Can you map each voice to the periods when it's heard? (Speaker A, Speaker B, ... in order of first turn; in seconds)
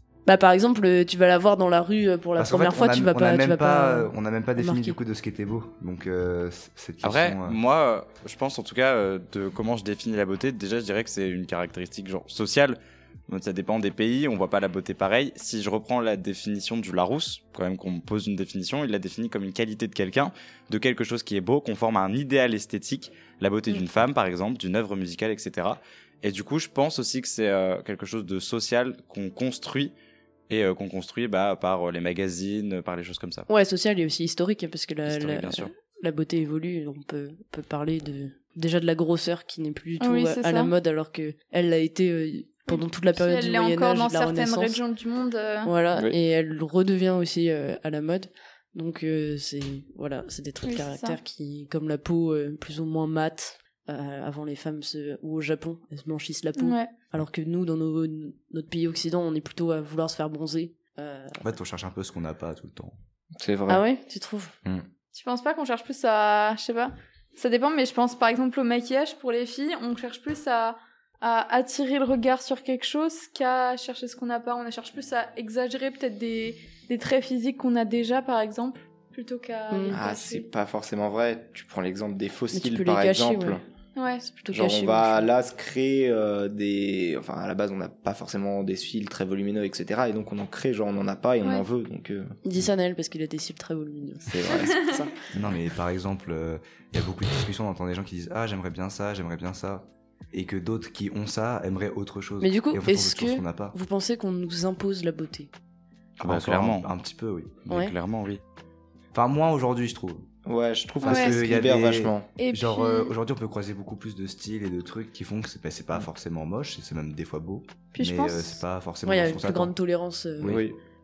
Speaker A: 0.3-5.0, 33.5-44.8, 45.6-61.5, 63.7-64.5, 79.7-80.0, 82.5-83.6, 84.2-85.3, 92.5-95.1, 102.4-105.5, 119.0-120.6
Speaker B: 2.4-7.6, 61.4-63.0, 95.3-103.8, 106.2-107.7, 109.1-110.3, 111.0-119.7, 120.4-120.7
Speaker C: 7.0-29.9, 30.5-33.5, 35.1-35.7, 106.2-106.9, 107.7-108.4
Speaker D: 40.0-40.7, 42.7-45.7, 50.6-51.2, 56.6-56.9, 65.1-80.5, 84.0-84.3, 91.4-91.7, 111.0-111.4, 112.4-113.1, 117.9-118.6
Speaker E: 63.4-63.8, 79.9-83.6, 84.5-92.4, 94.3-95.0, 110.5-112.3, 120.4-120.8